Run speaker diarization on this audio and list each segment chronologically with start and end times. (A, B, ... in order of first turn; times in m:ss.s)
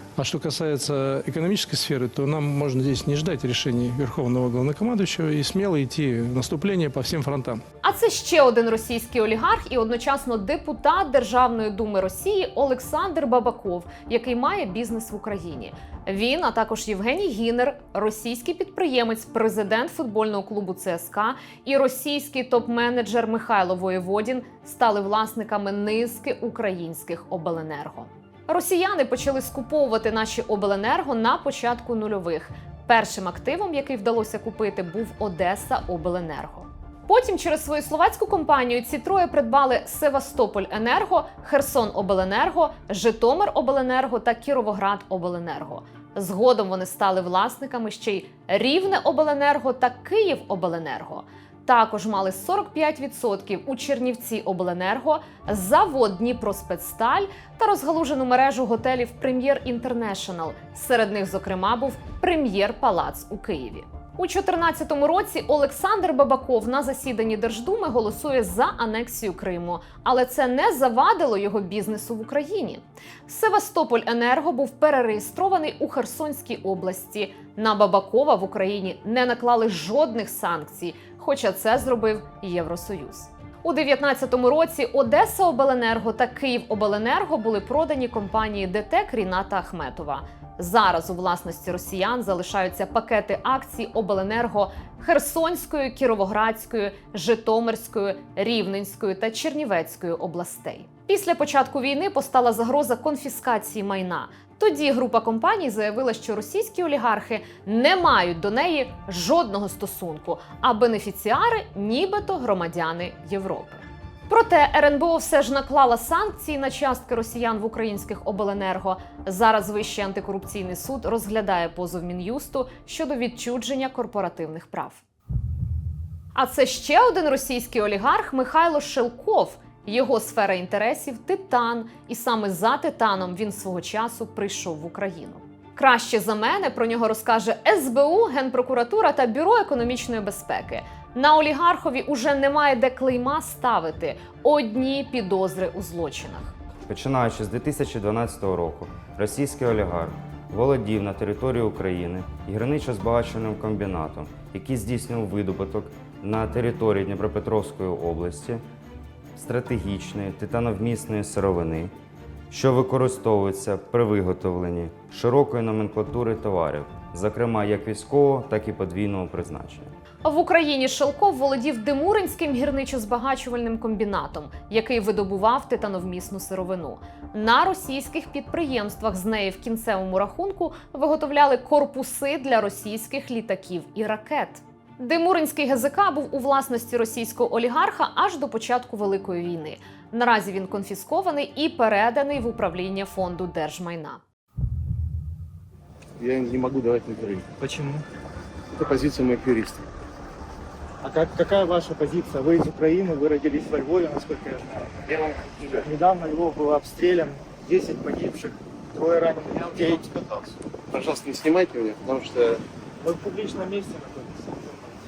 0:00.2-0:07.6 A
0:07.8-2:05.0 B
2:06.3-2:26.5 B
2:26.9-2:38.6 C
2:39.3-2:41.9 C
2:42.5-2:49.9 C
2:50.2-3:14.2 B
3:16.2-3:17.5 D
3:17.6-3:18.0 E
3:18.7-3:19.8 D
3:21.0-3:24.9 E
3:25.1-3:25.6 D
3:25.6-3:30.1 E
3:30.9-3:32.6 D
3:33.0-3:34.9 E